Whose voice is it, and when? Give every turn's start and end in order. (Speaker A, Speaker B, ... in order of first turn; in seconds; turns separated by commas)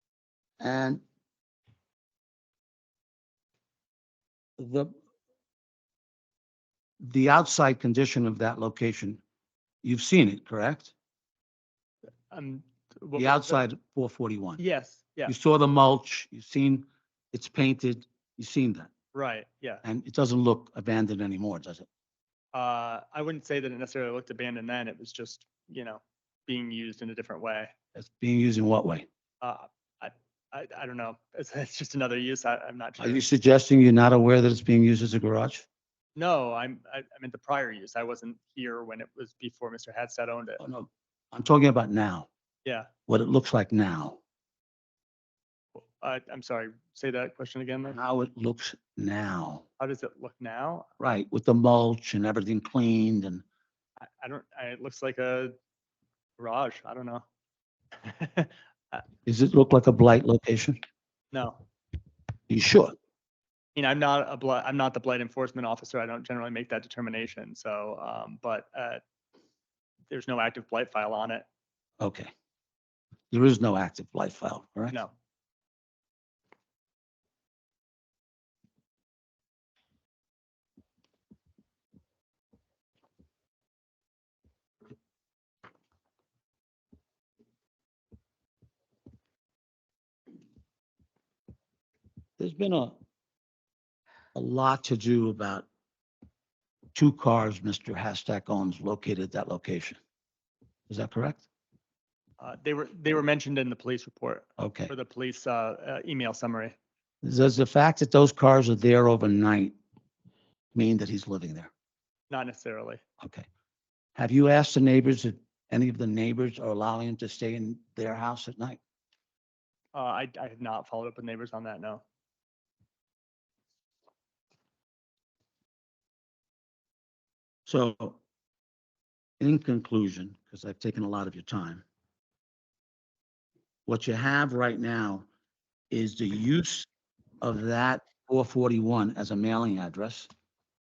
Speaker A: 0.6-1.0, Speaker A: 4.6-4.9, Speaker A: 7.0-9.2, Speaker A: 9.8-10.9, Speaker B: 12.3-13.6, Speaker A: 13.2-14.6, Speaker B: 14.6-15.3, Speaker A: 15.2-18.9, Speaker B: 19.1-19.8, Speaker A: 19.8-21.9, Speaker B: 22.5-27.7, Speaker A: 27.9-29.1, Speaker B: 29.4-33.2, Speaker A: 33.0-35.6, Speaker B: 36.1-40.6, Speaker A: 40.6-42.3, Speaker B: 42.6-42.9, Speaker A: 43.1-44.2, Speaker B: 45.8-48.0, Speaker A: 47.9-49.6, Speaker B: 49.8-50.9, Speaker A: 51.0-53.4, Speaker B: 54.0-55.5, Speaker B: 56.4-57.2, Speaker B: 58.0-59.0, Speaker A: 59.2-60.8, Speaker B: 61.3-61.6, Speaker A: 62.5-62.9, Speaker B: 63.8-69.0, Speaker B: 70.1-71.5, Speaker A: 72.0-72.3, Speaker A: 73.3-75.0, Speaker A: 92.4-93.0, Speaker A: 94.3-95.7, Speaker A: 96.9-100.0, Speaker A: 100.9-101.5, Speaker B: 102.4-106.7, Speaker A: 104.6-104.9, Speaker A: 107.2-109.7, Speaker A: 110.7-111.7, Speaker B: 112.3-113.0, Speaker A: 113.2-113.5, Speaker A: 114.2-118.8, Speaker B: 119.9-122.0, Speaker A: 127.7-128.2, Speaker A: 129.4-131.8, Speaker A: 133.9-135.3, Speaker A: 135.9-136.9, Speaker A: 137.4-140.3